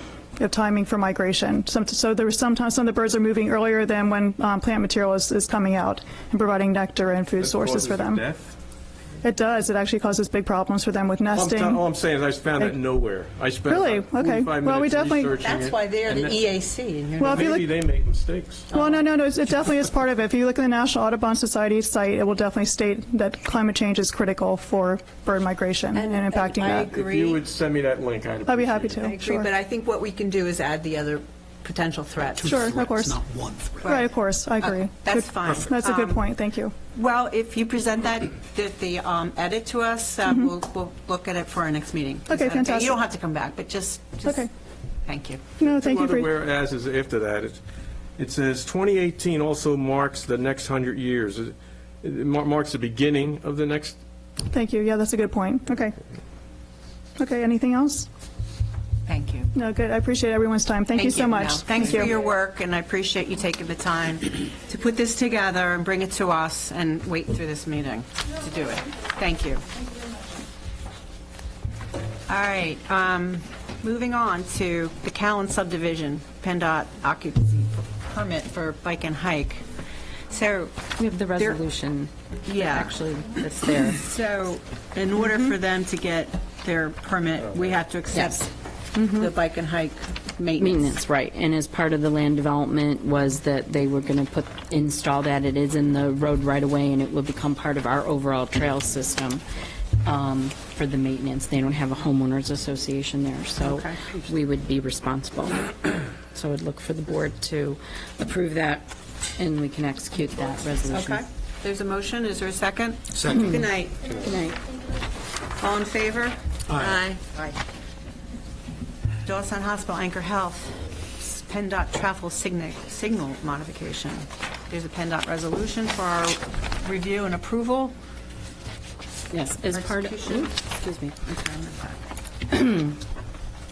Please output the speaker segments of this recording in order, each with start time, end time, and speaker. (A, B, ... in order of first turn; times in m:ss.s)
0:00.4-0:08.2 A
0:07.4-0:08.5 B
0:09.2-0:11.8 A
0:11.3-0:16.5 B
0:13.7-0:15.4 A
0:15.4-0:17.4 C
0:17.2-0:17.7 A
0:17.2-0:18.7 B
0:18.7-0:19.0 C
0:18.7-0:26.9 A
0:26.0-0:27.4 C
0:26.6-0:29.1 B
0:28.5-0:29.5 A
0:29.0-0:32.7 C
0:32.4-0:34.0 D
0:32.4-0:33.2 A
0:33.8-0:36.7 A
0:34.6-0:36.3 C
0:36.9-0:44.5 C
0:42.3-0:43.0 A
0:44.2-0:44.5 A
0:45.0-0:45.6 C
0:45.6-0:46.3 A
0:45.6-0:47.6 B
0:48.2-0:54.0 B
0:54.5-0:56.0 A
0:57.2-0:58.1 A
0:59.1-0:59.5 C
0:59.5-1:02.2 A
1:00.9-1:09.7 C
1:12.3-1:19.7 C
1:20.3-1:21.6 C
1:21.0-1:24.0 E
1:22.4-1:23.0 C
1:23.7-1:30.9 C
1:28.1-1:28.5 E
1:30.6-1:39.4 E
1:40.0-1:51.2 E
1:43.6-1:44.1 C
1:50.9-1:54.3 C
1:53.3-1:53.6 E
1:54.2-1:54.6 E
1:55.6-1:57.6 C
1:56.7-1:57.1 D
1:59.2-2:08.0 C
2:09.3-2:11.2 E
2:09.7-2:10.6 C
2:11.2-2:12.0 C
2:12.5-2:13.0 E